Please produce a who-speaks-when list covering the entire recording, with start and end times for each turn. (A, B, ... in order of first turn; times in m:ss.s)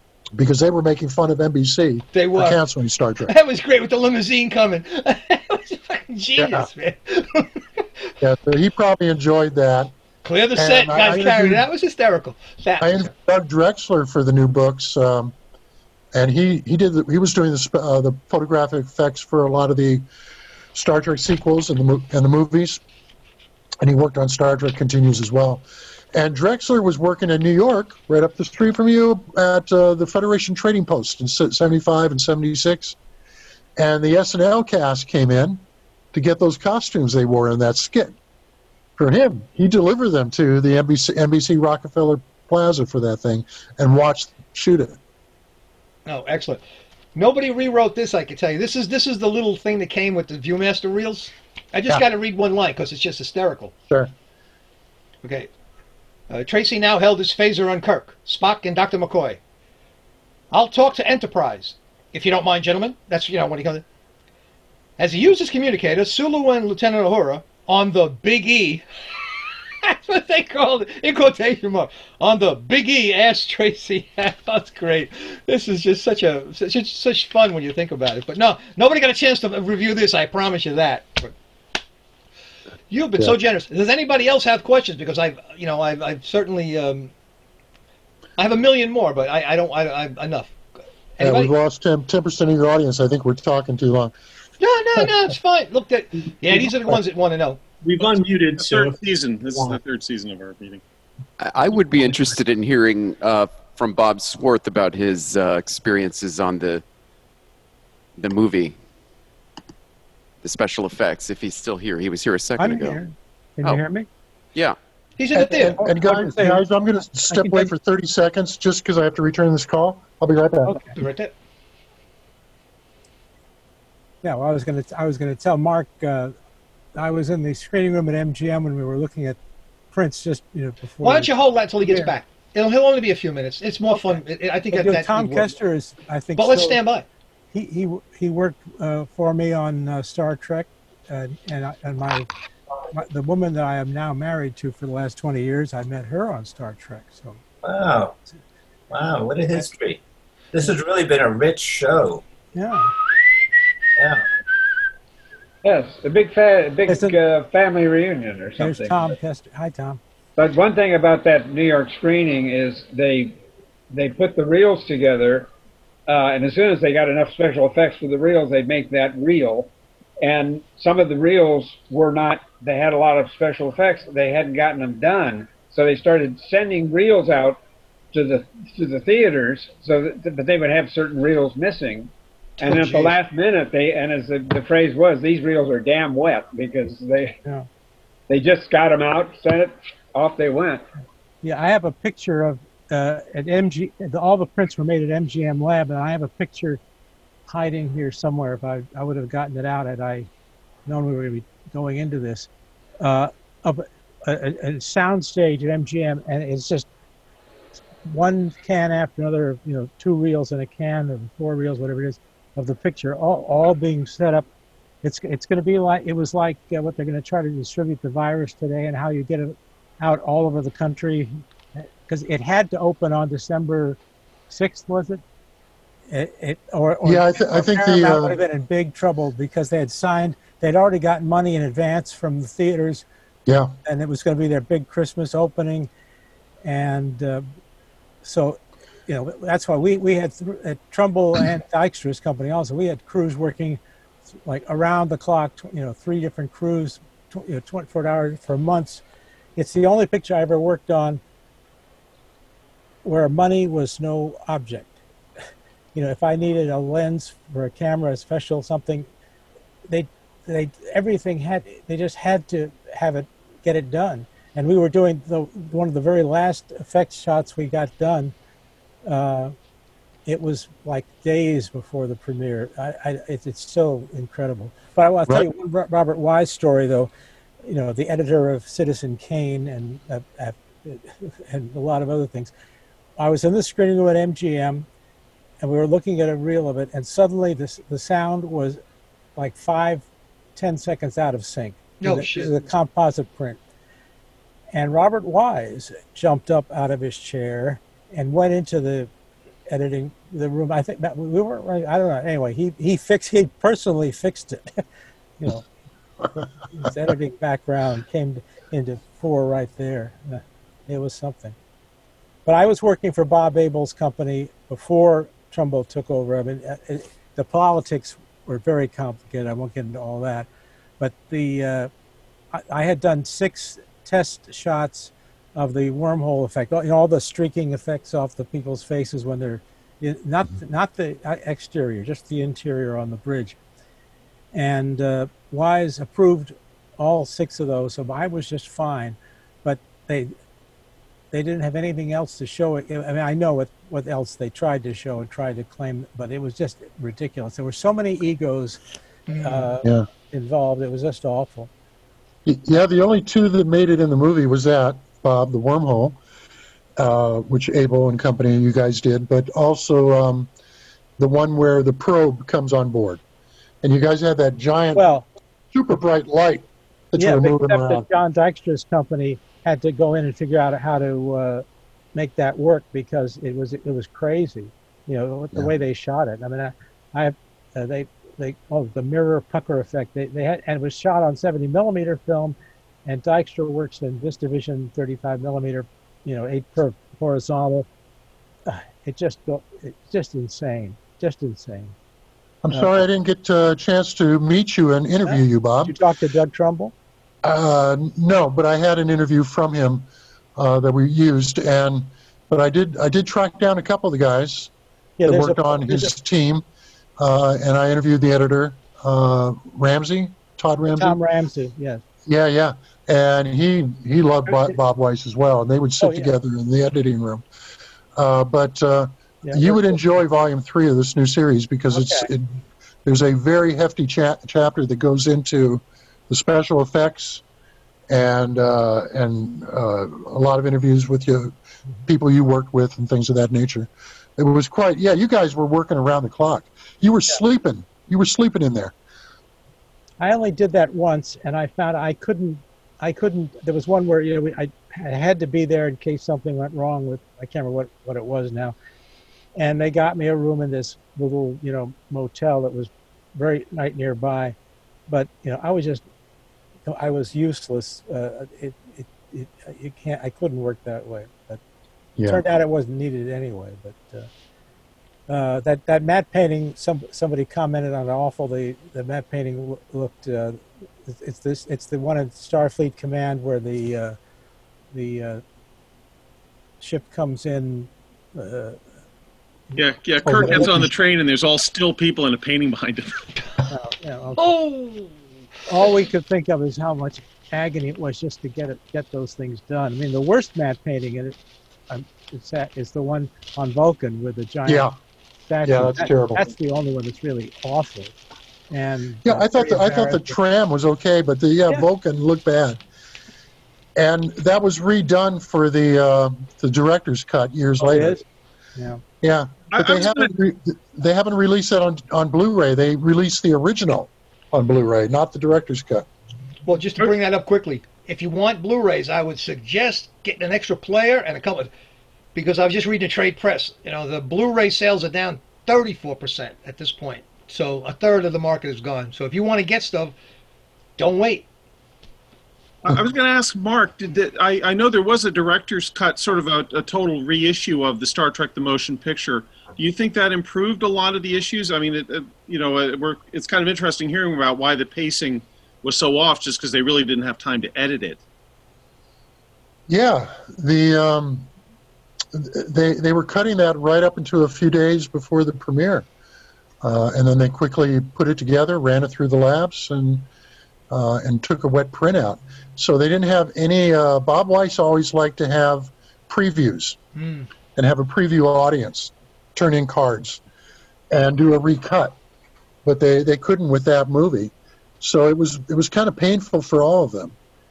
0:00.3-0:03.3 A
0:02.1-0:02.6 B
0:03.2-0:07.8 B
0:06.4-0:06.7 A
0:08.2-0:09.9 A
0:10.2-0:13.1 B
0:10.5-0:11.6 A
0:12.8-0:15.3 A
0:16.1-0:20.0 A
0:20.7-0:22.8 A
0:23.8-0:33.0 A
0:33.8-0:38.2 A
0:39.0-0:45.0 A
0:46.0-0:46.6 B
0:47.1-0:53.7 B
0:55.2-0:55.5 B
0:56.3-0:59.4 B
1:00.5-1:03.8 B
1:05.0-1:08.8 B
1:09.8-1:21.3 B
1:22.9-1:27.1 B
1:28.4-1:30.5 B
1:31.2-1:31.5 B
1:31.2-1:34.1 A
1:34.6-1:37.6 B
1:36.5-1:36.9 A
1:37.9-1:40.8 C
1:38.0-1:38.9 D
1:41.4-1:46.8 E
1:48.2-1:48.8 E
1:50.4-1:53.0 E
1:52.6-1:54.1 F
1:55.2-1:55.8 B
1:55.3-2:00.8 A
1:55.7-1:56.6 F
1:57.2-1:57.7 F
2:00.6-2:00.9 F
2:01.0-2:01.3 B
2:04.2-2:06.3 F
2:07.0-2:09.4 F
2:09.9-2:11.3 F
2:11.0-2:15.5 B
2:11.9-2:12.1 F
2:13.9-2:16.8 F
2:16.4-2:17.1 B
2:17.5-2:22.3 F
2:22.9-2:27.4 F
2:27.6-2:28.2 D
2:28.9-2:30.0 D
2:30.5-2:32.2 D
2:32.5-2:32.9 F
2:34.0-2:34.2 D
2:35.6-2:39.1 G
2:36.9-2:37.2 F
2:38.6-2:40.0 F
2:40.4-2:43.4 G
2:43.9-2:45.5 G
2:46.1-2:49.7 G
2:50.2-2:57.6 G
2:58.1-3:07.3 G
3:02.6-3:03.2 B
3:08.3-3:10.8 G
3:11.4-3:16.8 F
3:17.5-3:20.3 F
3:20.8-3:22.5 F
3:23.0-3:26.9 F
3:28.0-3:34.4 F
3:35.0-3:44.0 F
3:44.5-3:45.2 F
3:46.1-3:53.0 F
3:47.0-3:48.4 A
3:53.4-3:53.7 A
3:53.8-3:55.9 F
3:56.6-3:57.4 F
3:58.2-4:03.8 F
4:04.4-4:09.0 F
4:09.6-4:11.2 F
4:13.0-4:15.0 F
4:15.9-4:19.1 F
4:19.9-4:28.3 F
4:29.0-4:29.5 F
4:30.2-4:37.1 F
4:37.6-4:42.5 F
4:43.2-4:44.9 F
4:45.6-4:48.8 F
4:49.4-4:50.0 F
4:50.6-4:53.6 F
4:52.0-4:52.5 B
4:54.7-4:59.1 F
4:59.7-5:04.8 F
5:05.4-5:05.6 F
5:06.7-5:11.6 F
5:12.4-5:20.5 F
5:21.0-5:21.9 F
5:22.5-5:33.6 F
5:34.5-5:40.3 F
5:41.3-5:48.8 F
5:49.3-5:49.7 B
5:49.4-5:51.7 F
5:52.4-5:56.2 A
5:57.0-6:00.5 A
6:01.2-6:03.2 A
6:03.8-6:05.0 A
6:04.9-6:05.3 F
6:05.7-6:08.1 A
6:07.2-6:11.6 F
6:12.1-6:27.8 F
6:28.6-6:31.9 F
6:32.6-6:36.0 A
6:32.7-6:33.0 F
6:35.2-6:36.9 F
6:37.4-6:44.7 A
6:45.2-6:46.2 F
6:45.2-6:46.6 A
6:47.2-6:51.2 A
6:50.9-6:52.0 F
6:52.2-6:57.4 A
6:54.5-6:54.7 F
6:56.0-6:56.3 F
6:58.2-7:07.4 A
6:59.4-7:00.1 F
7:01.9-7:02.3 F
7:08.1-7:11.5 A
7:12.0-7:18.9 A
7:20.2-7:28.7 F
7:29.6-7:34.6 F
7:35.1-7:36.0 F
7:36.8-7:41.6 F
7:42.2-7:42.4 A
7:42.2-7:44.3 F
7:45.3-7:54.2 F
7:54.9-7:55.4 F
7:56.8-7:58.8 F
7:59.8-8:03.2 C
8:00.2-8:00.9 A
8:00.4-8:00.7 F
8:03.7-8:04.6 F
8:04.4-8:05.1 B
8:05.7-8:11.4 F
8:11.9-8:14.9 F
8:14.6-8:14.9 A
8:15.5-8:18.1 F
8:15.6-8:16.5 A
8:18.7-8:20.3 F
8:19.2-8:22.8 A
8:23.9-8:28.2 A
8:27.8-8:28.2 F
8:28.8-8:29.0 F
8:29.2-8:36.1 A
8:29.7-8:30.3 C
8:36.6-8:41.7 B
8:42.3-8:50.1 B
8:51.0-8:51.5 B
8:52.8-9:08.2 C
9:09.9-9:11.5 A
9:12.3-9:16.1 A
9:16.8-9:20.3 A
9:20.9-9:27.0 A
9:27.1-9:27.5 B
9:27.8-9:30.4 A
9:31.1-9:32.2 A
9:32.8-9:37.4 A